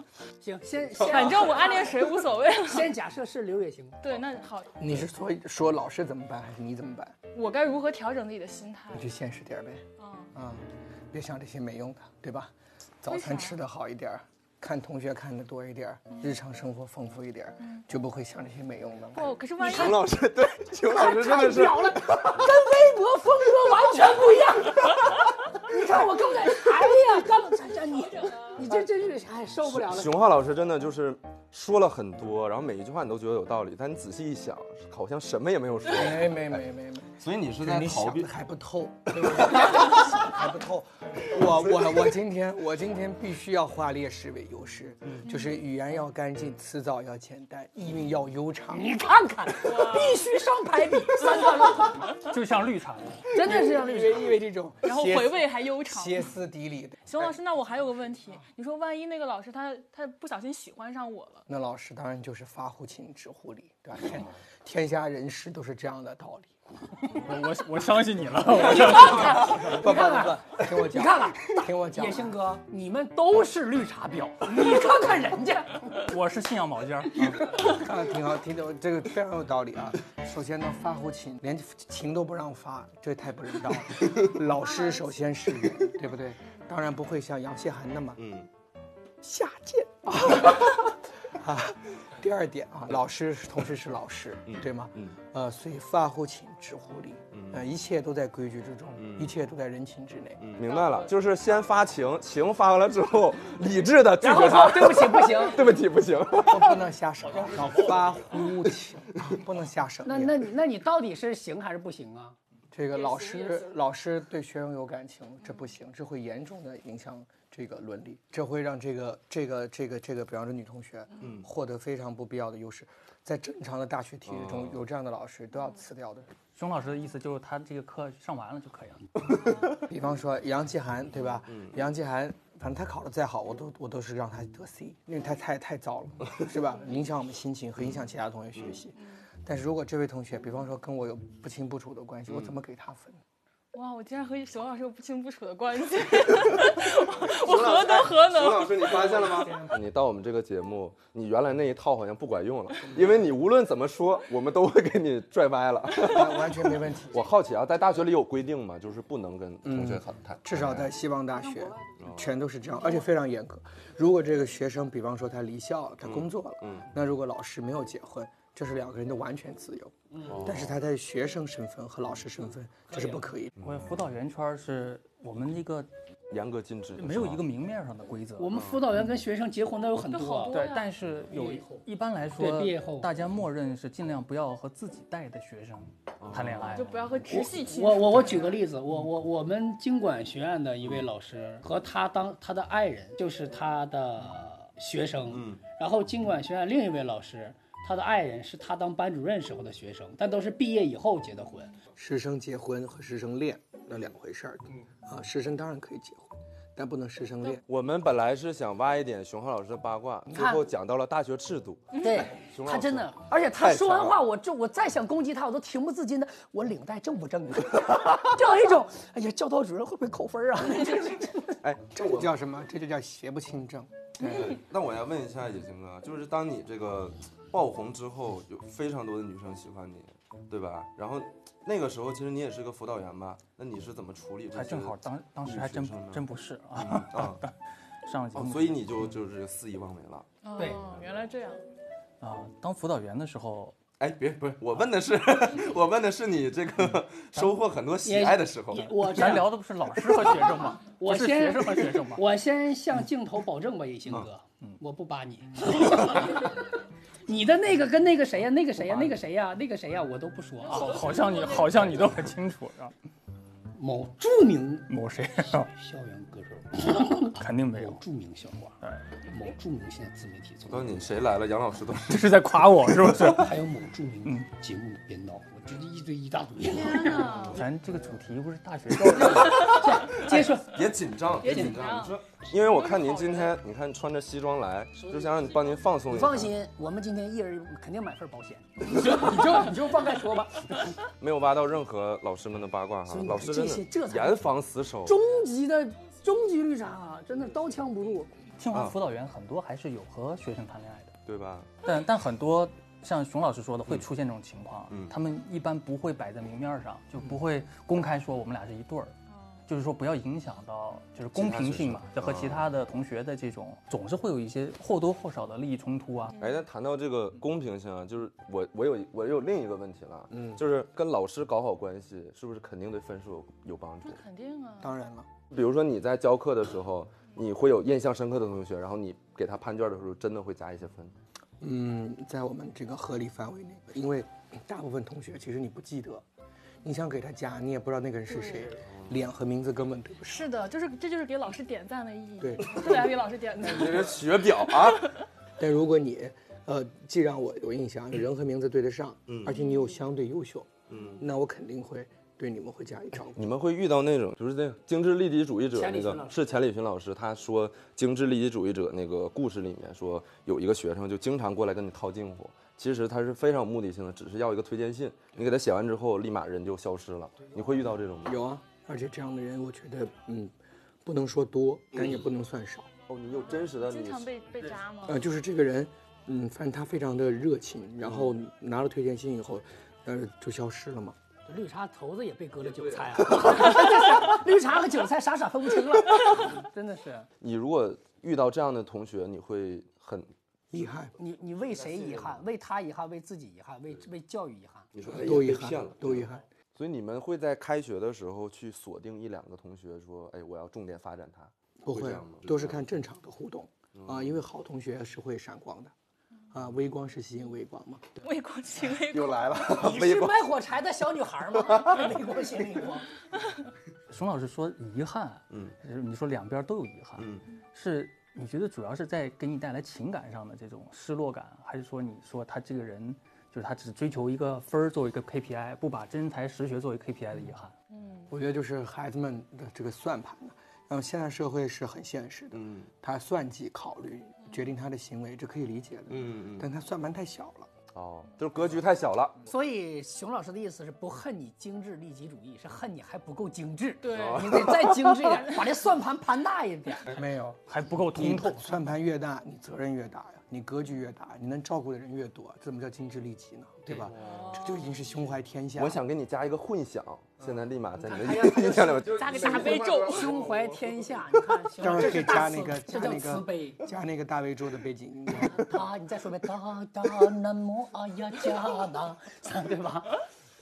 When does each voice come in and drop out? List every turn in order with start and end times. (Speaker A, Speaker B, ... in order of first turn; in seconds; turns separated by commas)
Speaker A: 0.4-4.2, Speaker B: 1.0-2.9, Speaker C: 1.1-1.4, Speaker B: 4.0-4.8, Speaker D: 4.8-7.2, Speaker B: 7.3-9.1, Speaker D: 8.9-19.3, Speaker B: 10.0-10.3, Speaker B: 13.1-13.6, Speaker B: 19.1-20.1, Speaker C: 19.6-22.6, Speaker A: 20.8-30.2, Speaker C: 29.6-36.6, Speaker D: 35.9-48.9, Speaker C: 37.2-38.3, Speaker C: 39.1-40.0, Speaker B: 45.3-45.5, Speaker A: 48.7-52.2, Speaker B: 49.6-50.3, Speaker E: 52.2-53.3, Speaker A: 53.3-54.4, Speaker D: 53.4-57.3, Speaker B: 53.5-54.1, Speaker B: 54.8-56.3, Speaker B: 57.1-61.4, Speaker D: 61.5-66.5, Speaker E: 67.1-69.4, Speaker A: 68.6-76.1, Speaker D: 69.2-72.4, Speaker E: 75.9-77.6, Speaker D: 77.5-88.2, Speaker C: 88.2-88.5, Speaker D: 89.2-100.5, Speaker C: 94.5-95.1, Speaker C: 97.3-97.7, Speaker C: 99.0-99.3, Speaker C: 100.4-106.9, Speaker B: 100.7-101.0, Speaker A: 104.2-105.8, Speaker D: 106.4-110.5, Speaker C: 107.4-108.5, Speaker A: 110.0-112.4, Speaker D: 112.7-126.3, Speaker B: 112.9-113.7, Speaker C: 121.2-121.5, Speaker C: 124.3-124.8, Speaker E: 126.5-129.1, Speaker D: 129.6-143.2, Speaker C: 131.5-131.8, Speaker C: 142.3-142.5, Speaker B: 143.7-149.3, Speaker C: 146.4-160.9, Speaker D: 155.9-157.3, Speaker D: 159.6-173.5, Speaker A: 161.3-162.0, Speaker C: 162.0-162.3, Speaker C: 166.0-166.9, Speaker A: 170.1-170.4, Speaker C: 170.2-170.8, Speaker A: 172.9-173.3, Speaker C: 173.6-174.0, Speaker E: 173.6-175.9, Speaker C: 176.3-177.4, Speaker E: 177.0-178.5, Speaker A: 178.4-180.6, Speaker C: 178.5-178.8, Speaker B: 180.1-180.9, Speaker E: 180.5-187.1, Speaker A: 181.3-181.8, Speaker A: 182.4-183.1, Speaker C: 186.2-186.7, Speaker B: 186.7-188.6, Speaker A: 187.3-201.8, Speaker C: 195.3-195.6, Speaker D: 201.9-207.6, Speaker C: 207.7-214.2, Speaker A: 210.3-210.6, Speaker B: 211.9-212.3, Speaker A: 212.0-221.6, Speaker C: 221.6-222.3, Speaker D: 221.9-224.6, Speaker C: 224.2-236.2, Speaker E: 234.5-237.5, Speaker C: 236.8-237.4, Speaker E: 238.1-238.8, Speaker C: 238.3-240.3, Speaker B: 240.4-241.6, Speaker E: 242.2-243.8, Speaker C: 244.0-248.9, Speaker A: 248.0-256.7, Speaker E: 248.8-252.2, Speaker A: 257.2-261.0, Speaker E: 258.8-259.2, Speaker E: 260.7-262.9, Speaker B: 260.8-262.0, Speaker A: 263.7-271.2, Speaker E: 264.9-265.7, Speaker E: 267.3-268.0, Speaker C: 270.6-272.4, Speaker E: 272.1-273.5, Speaker A: 273.1-277.4, Speaker E: 274.2-274.5, Speaker B: 276.9-277.5, Speaker C: 277.1-277.6, Speaker E: 277.4-279.8, Speaker A: 279.1-280.9, Speaker C: 279.1-286.5, Speaker B: 281.4-283.6, Speaker A: 281.4-281.8, Speaker A: 285.0-285.5, Speaker A: 286.0-291.0, Speaker C: 291.2-295.2, Speaker A: 293.1-294.5, Speaker A: 295.0-298.3, Speaker E: 298.6-301.1, Speaker C: 301.2-301.7, Speaker E: 301.8-309.1, Speaker C: 304.9-305.1, Speaker B: 309.3-309.6, Speaker E: 309.7-316.4, Speaker C: 311.3-312.6, Speaker B: 316.3-316.6, Speaker C: 316.4-324.2, Speaker D: 320.3-320.6, Speaker B: 324.0-325.0, Speaker D: 324.8-325.3, Speaker C: 325.5-331.1, Speaker D: 331.6-336.2, Speaker D: 336.8-340.5, Speaker B: 338.3-338.7, Speaker C: 338.8-339.2, Speaker B: 340.2-345.2, Speaker D: 342.4-343.1, Speaker C: 343.6-345.1, Speaker D: 345.6-353.5, Speaker C: 349.3-349.5, Speaker B: 349.5-349.9, Speaker C: 350.9-351.2, Speaker C: 353.3-368.4, Speaker A: 355.7-356.5, Speaker D: 368.2-370.5, Speaker D: 371.0-372.9, Speaker C: 373.1-374.3, Speaker B: 373.4-375.2, Speaker D: 375.0-381.2, Speaker C: 378.0-378.3, Speaker A: 381.4-387.3, Speaker C: 382.6-383.6, Speaker C: 387.4-390.3, Speaker D: 390.7-391.1, Speaker A: 391.2-394.9, Speaker C: 391.7-392.4, Speaker C: 394.9-402.8, Speaker D: 395.1-396.4, Speaker D: 401.8-405.9, Speaker C: 403.9-404.4, Speaker D: 406.5-408.2, Speaker B: 408.2-409.6, Speaker C: 408.9-410.5, Speaker A: 409.7-413.1, Speaker C: 411.7-412.0, Speaker B: 413.4-413.6, Speaker E: 414.1-427.7, Speaker C: 417.2-417.4, Speaker B: 427.9-428.3, Speaker D: 428.3-437.7, Speaker C: 432.5-432.9, Speaker C: 436.1-436.7, Speaker C: 437.9-439.4, Speaker A: 439.4-447.2, Speaker B: 444.0-444.7, Speaker C: 444.1-445.4, Speaker B: 445.2-445.7, Speaker D: 447.1-456.0, Speaker E: 447.7-448.9, Speaker C: 453.9-454.6, Speaker B: 454.2-454.9, Speaker C: 455.8-461.2, Speaker A: 458.0-463.9, Speaker B: 459.2-460.3, Speaker D: 461.8-465.7, Speaker A: 465.4-470.2